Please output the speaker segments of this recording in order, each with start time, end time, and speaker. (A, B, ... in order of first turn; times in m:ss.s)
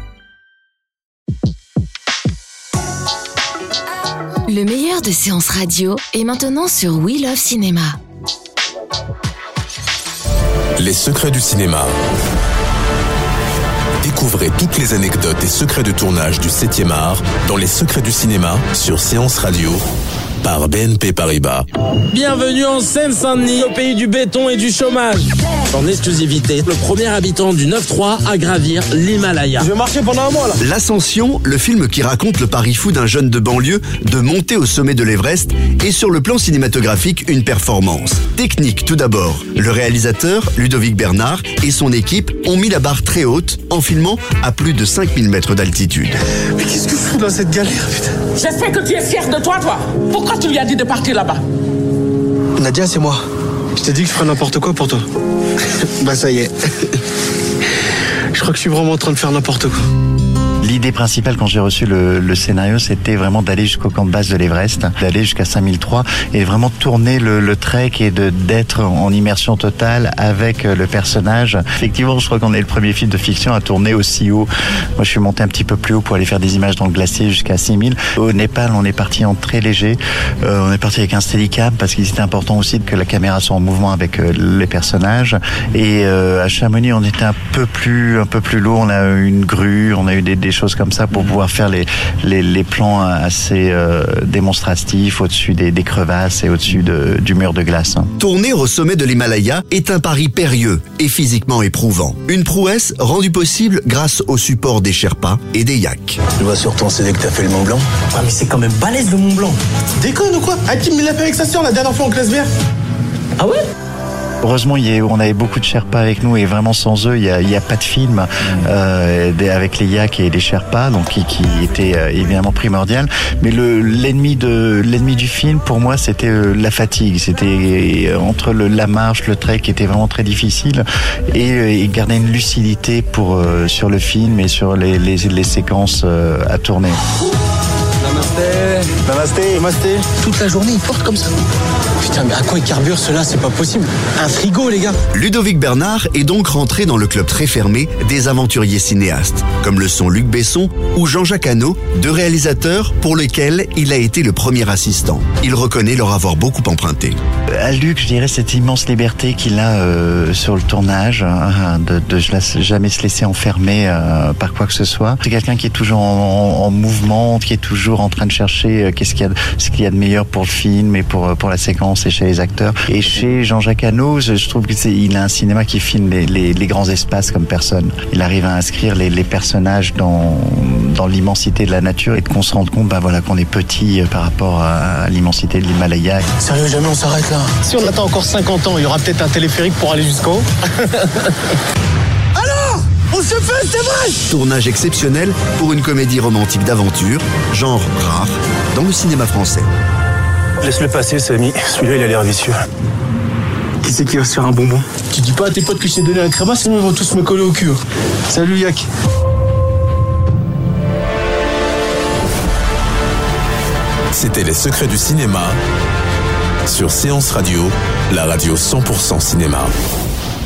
0:04.5-0:08.0 A
0:10.8-0:11.9 B
0:14.0-0:19.8 B
0:20.4-0:21.6 B
0:22.1-0:29.8 C
0:29.8-0:30.6 D
0:30.6-0:46.2 E
0:46.5-0:48.2 D
0:48.3-0:51.4 F
0:52.6-0:53.2 D
0:53.8-0:55.0 D
0:56.0-0:56.5 D
0:58.4-0:59.8 D
1:00.6-1:38.1 G
1:38.2-1:46.3 E
1:50.0-1:52.5 D
1:54.4-2:17.0 G
2:19.0-2:20.2 D
2:22.0-2:25.0 D
2:25.1-2:37.2 E
2:37.6-3:06.3 G
3:06.5-3:10.4 D
3:12.4-3:14.2 D
3:14.3-3:19.7 E
3:20.6-3:22.6 D
3:24.0-3:24.4 D
3:25.0-3:28.9 D
3:34.1-3:35.6 B
3:36.7-3:39.7 B